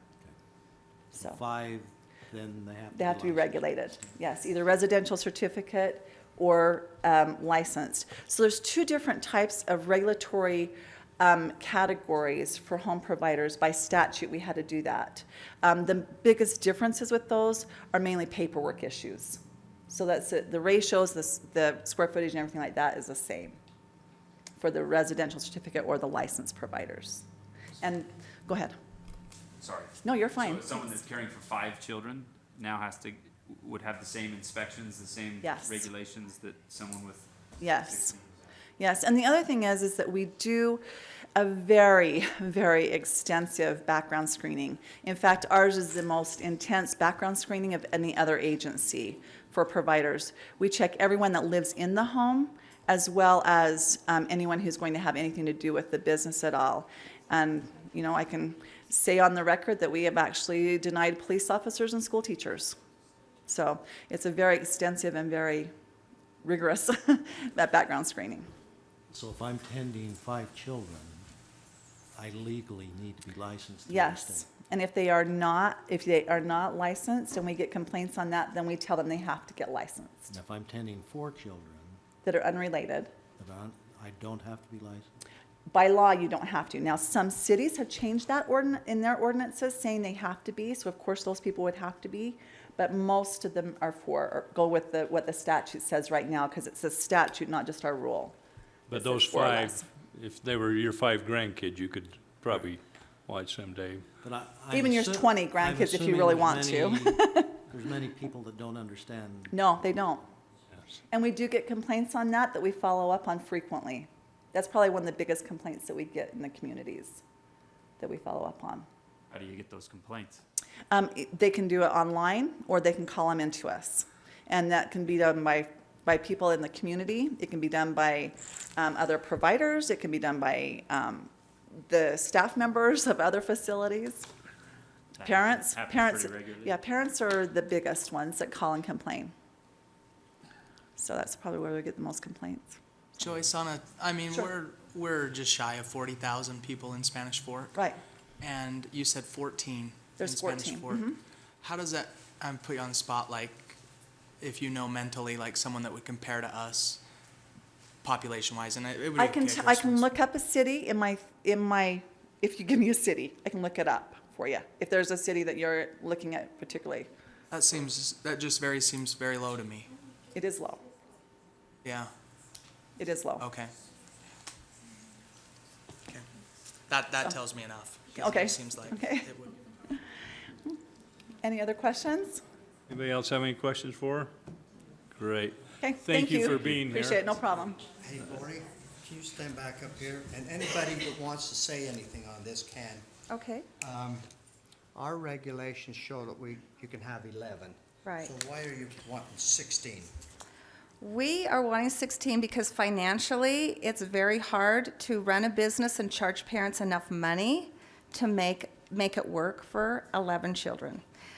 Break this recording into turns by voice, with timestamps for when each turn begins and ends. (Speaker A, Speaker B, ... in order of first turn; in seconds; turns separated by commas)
Speaker A: 1.1-4.0, Speaker B: 1.1-1.4, Speaker B: 2.9-23.6, Speaker B: 24.6-27.2, Speaker B: 27.8-28.7, Speaker C: 29.6-38.5, Speaker B: 30.0-30.9, Speaker B: 35.4-35.8, Speaker B: 37.6-38.1, Speaker B: 38.8-40.8, Speaker B: 41.3-62.8, Speaker B: 63.5-65.7, Speaker B: 66.4-68.5, Speaker A: 69.1-71.3, Speaker A: 72.1-74.5, Speaker B: 73.9-80.3, Speaker A: 80.3-82.0, Speaker B: 82.2-83.1, Speaker A: 83.4-85.2, Speaker B: 85.7-98.3, Speaker D: 98.9-104.1, Speaker B: 98.9-99.8, Speaker A: 104.2-109.6, Speaker B: 104.7-107.5, Speaker B: 109.5-110.3, Speaker B: 111.1-117.2, Speaker B: 118.0-118.8, Speaker C: 119.3-120.4, Speaker B: 120.9-131.3, Speaker B: 131.9-134.3, Speaker C: 135.2-136.8, Speaker B: 135.2-139.3, Speaker B: 141.0-142.8, Speaker E: 143.2-147.8, Speaker B: 147.7-148.0, Speaker E: 148.4-151.0, Speaker B: 150.2-151.2, Speaker E: 151.6-153.8, Speaker E: 154.4-157.0, Speaker E: 158.0-160.1, Speaker B: 159.2-167.1, Speaker E: 167.5-169.9, Speaker B: 170.3-170.8, Speaker E: 171.8-172.1, Speaker B: 173.0-173.4, Speaker E: 173.4-173.7, Speaker E: 176.9-179.6, Speaker B: 178.1-179.3, Speaker B: 181.4-182.4, Speaker D: 182.9-184.3, Speaker D: 185.1-187.2, Speaker B: 185.8-187.8, Speaker F: 188.0-193.1, Speaker G: 193.3-193.7, Speaker F: 193.8-194.2, Speaker F: 194.9-200.1, Speaker G: 198.0-198.3, Speaker G: 201.0-211.0